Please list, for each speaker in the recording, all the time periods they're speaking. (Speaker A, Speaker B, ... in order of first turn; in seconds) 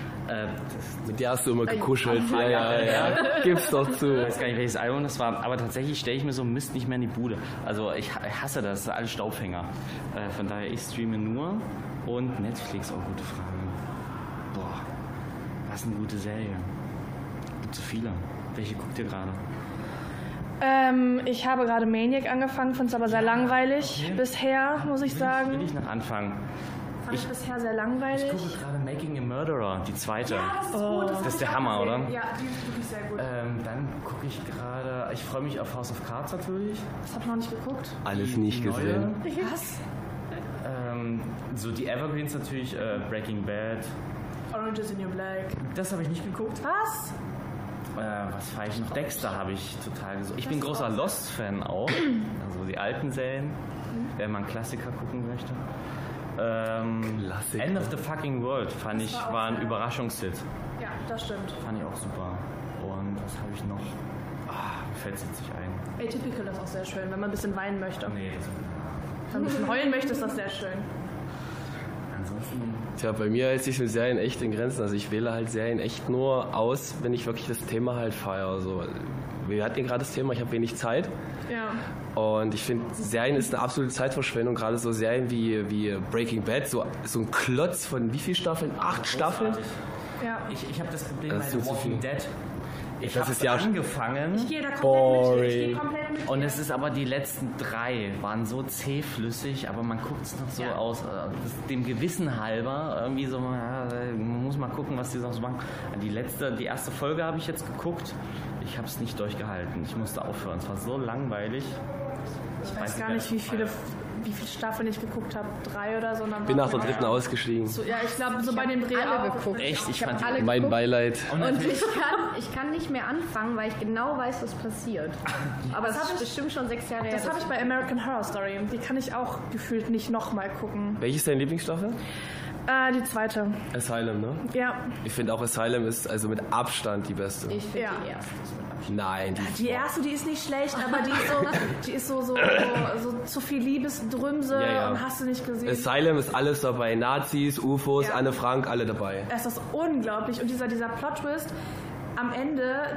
Speaker A: 0.3-1.0, 2.1-13.8, 14.5-14.8, 15.7-16.7, 17.6-19.4, 23.1-26.4, 28.1-30.6, 31.2-32.2, 33.1-36.9, 38.1-39.3, 40.6-43.9, 45.6-46.6, 48.0-53.6, 54.2-55.6, 56.4-60.4, 61.6-65.9, 68.0-69.2, 72.1-72.9, 88.8-89.8, 90.5-92.3, 93.0-94.6, 96.2-111.8, 112.6-113.8, 116.7-117.2, 119.6-120.7, 121.3-122.0
Speaker B: 1.1-4.4, 38.0-39.2, 57.1-57.9, 73.0-81.1, 82.2-89.6, 91.3-92.0, 93.0-93.7, 94.8-95.8, 116.5-117.8, 120.4-121.4, 131.0-132.0, 133.7-134.5, 135.0-137.6, 138.9-139.9, 144.5-145.1, 145.7-149.3
Speaker C: 20.6-25.7, 27.1-28.5, 30.3-33.3, 37.1-38.0, 39.3-39.8, 44.5-45.6, 46.6-47.1, 58.9-59.8, 60.8-61.6, 67.1-68.2, 69.3-70.9, 81.5-81.8, 90.2-90.5, 94.3-96.6, 112.6-120.4, 125.8-126.3, 127.1-131.0, 132.7-133.6, 134.5-134.9, 137.8-138.0, 139.4-145.9, 148.0-148.2, 149.3-151.2, 152.2-152.5
Speaker D: 30.9-31.1, 118.4-127.8, 137.5-139.0